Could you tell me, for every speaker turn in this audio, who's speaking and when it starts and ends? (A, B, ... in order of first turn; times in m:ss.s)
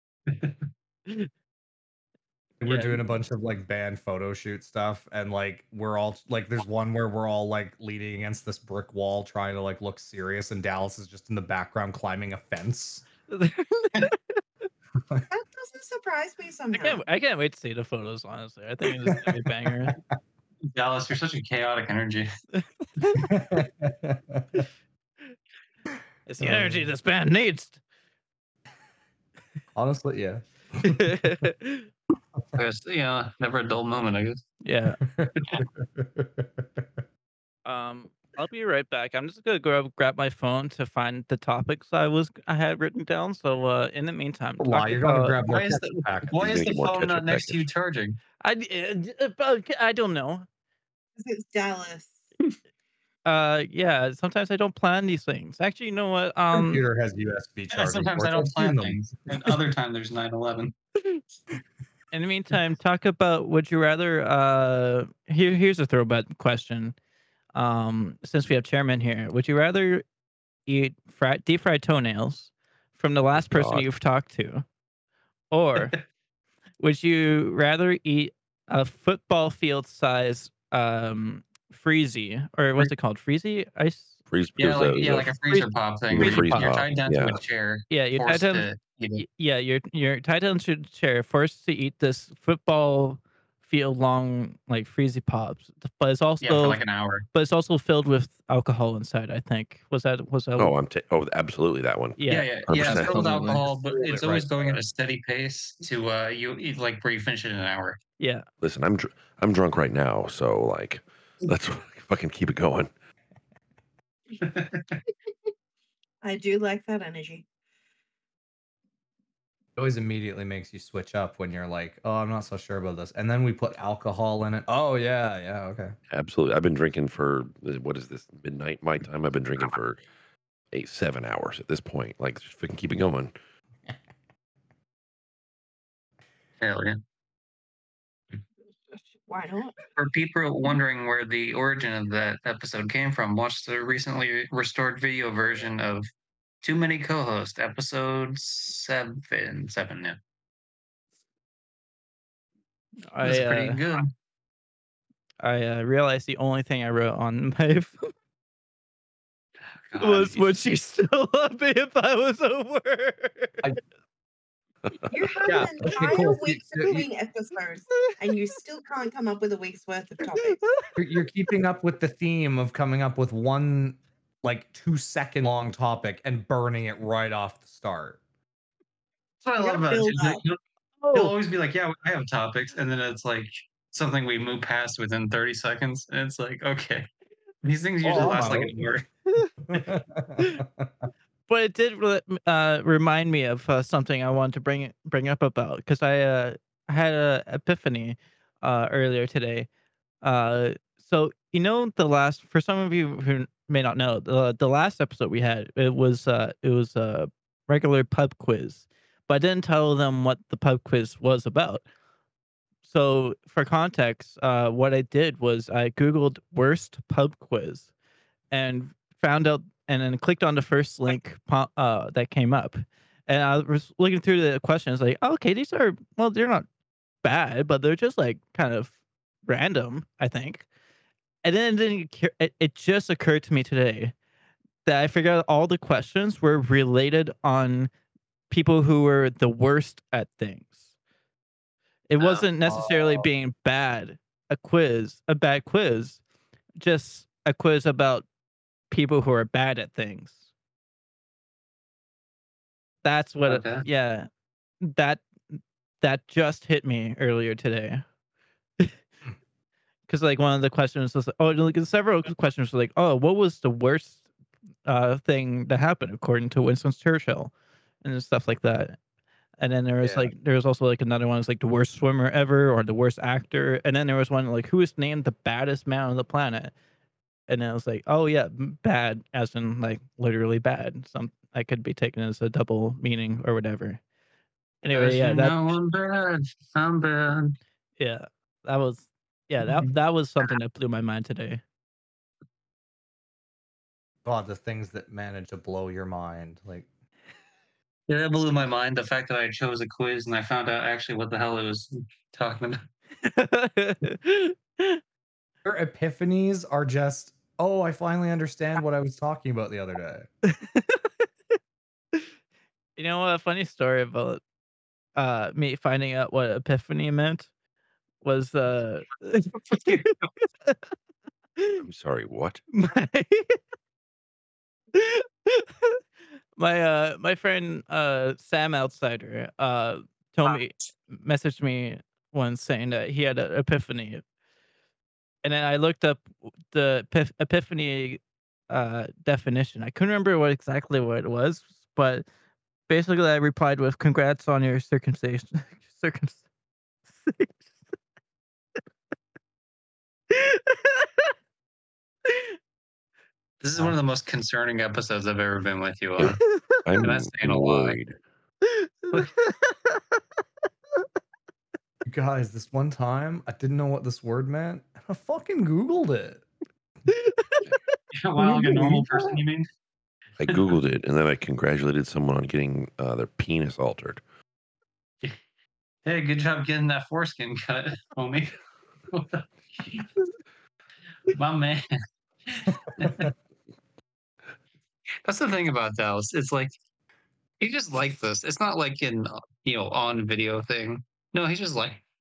0:00.3-0:00.5 A
0:02.6-0:13.0 B
0:02.6-0:03.0 C
0:13.3-0:14.4 C
0:15.3-0:17.0 D
0:16.7-0:20.0 C
0:19.1-0:19.9 B
0:20.7-0:22.3 A
0:22.6-0:23.3 C
0:23.2-0:24.6 B
0:26.2-0:27.8 C
0:26.4-0:26.9 B
0:29.7-0:31.3 B
0:30.8-0:31.9 C
0:32.5-0:34.4 A
0:34.6-0:35.0 C
0:35.0-0:36.8 B
0:37.6-0:45.4 C
0:44.6-0:46.6 B
0:45.5-0:48.2 A
0:46.3-0:47.7 E
0:48.4-0:50.4 C
0:51.2-0:52.2 D
0:53.2-0:56.8 C
0:56.5-0:59.0 B
0:57.7-1:00.7 A
1:02.1-1:06.9 C
1:07.5-1:10.0 C
1:10.7-1:14.6 C
1:13.4-1:13.9 E
1:15.5-1:15.9 C
1:16.8-1:24.1 C
1:24.3-1:25.3 E
1:24.6-1:29.2 A
1:25.5-1:26.7 C
1:26.1-1:27.4 E
1:27.9-1:36.8 C
1:36.4-1:37.2 A
1:37.3-1:40.7 C
1:40.6-1:44.8 E
1:42.2-1:43.4 C
1:42.3-1:48.0 A
1:48.2-1:48.4 C
1:48.6-1:52.9 E
1:54.4-1:55.0 A
1:56.2-1:57.4 D
1:59.8-2:05.9 B
2:06.1-2:10.0 E
2:10.7-2:13.3 E
2:16.6-2:17.0 A
2:18.9-2:19.8 D
2:20.0-2:26.0 A
2:26.6-2:30.2 A
2:33.1-2:33.8 C
2:33.2-2:34.1 A
2:35.4-2:38.1 C
2:39.9-2:40.6 A
2:40.0-2:43.6 C
2:45.1-2:50.6 D
2:45.5-2:47.1 B
2:47.9-2:48.2 C
2:50.4-2:50.9 C
2:51.0-2:58.2 B
2:59.4-3:00.6 A
2:59.6-3:00.4 D
3:01.0-3:01.3 C
3:01.1-3:07.1 A
3:07.6-3:09.0 A
3:08.0-3:08.8 B
3:08.2-3:08.5 C
3:09.6-3:10.9 B
3:10.4-3:10.6 C
3:11.5-3:19.7 C
3:20.2-3:31.8 C
3:32.8-3:37.9 C
3:38.5-3:46.6 C
3:47.2-3:48.9 C
3:49.4-3:50.6 C
3:51.4-3:54.1 C
3:54.8-3:57.9 C
3:58.5-4:00.8 C
4:02.1-4:06.2 C
4:02.2-4:02.4 A
4:02.7-4:03.2 B
4:06.8-4:08.2 C
4:08.9-4:10.4 C
4:13.0-4:14.3 C
4:13.5-4:13.8 A
4:14.8-4:18.0 C
4:20.1-4:24.2 C
4:24.8-4:27.5 C
4:28.0-4:29.0 C
4:29.6-4:36.7 C
4:30.0-4:30.3 B
4:37.5-4:44.0 C
4:44.8-4:45.6 C
4:44.9-4:47.6 A
4:48.0-4:51.6 C
4:49.6-4:49.9 A
4:54.2-4:56.9 B
4:58.1-5:02.8 A
5:03.2-5:05.0 C
5:05.6-5:10.3 B
5:10.4-5:11.2 C
5:13.0-5:14.4 C
5:15.2-5:17.5 C
5:18.2-5:20.8 C
5:19.7-5:20.1 A
5:21.8-5:22.6 E
5:22.7-5:23.6 C
5:24.9-5:26.0 C
5:26.6-5:34.2 C
5:35.4-5:42.2 C
5:42.9-5:46.4 C
5:47.2-5:47.6 C
5:50.3-5:51.3 C
5:52.3-5:52.5 C
5:53.6-5:56.4 A
5:56.2-5:58.2 E
5:56.2-5:56.8 C
5:57.0-5:58.0 A
5:58.6-6:00.0 C
6:02.0-6:06.4 B
6:07.1-6:07.6 C
6:08.1-6:09.6 A
6:08.4-6:09.3 B
6:10.4-6:14.2 E
6:10.5-6:10.8 A
6:16.0-6:18.6 A
6:19.1-6:20.0 A
6:21.3-6:21.9 A
6:22.5-6:23.3 A
6:25.2-6:26.7 A
6:27.6-6:32.0 A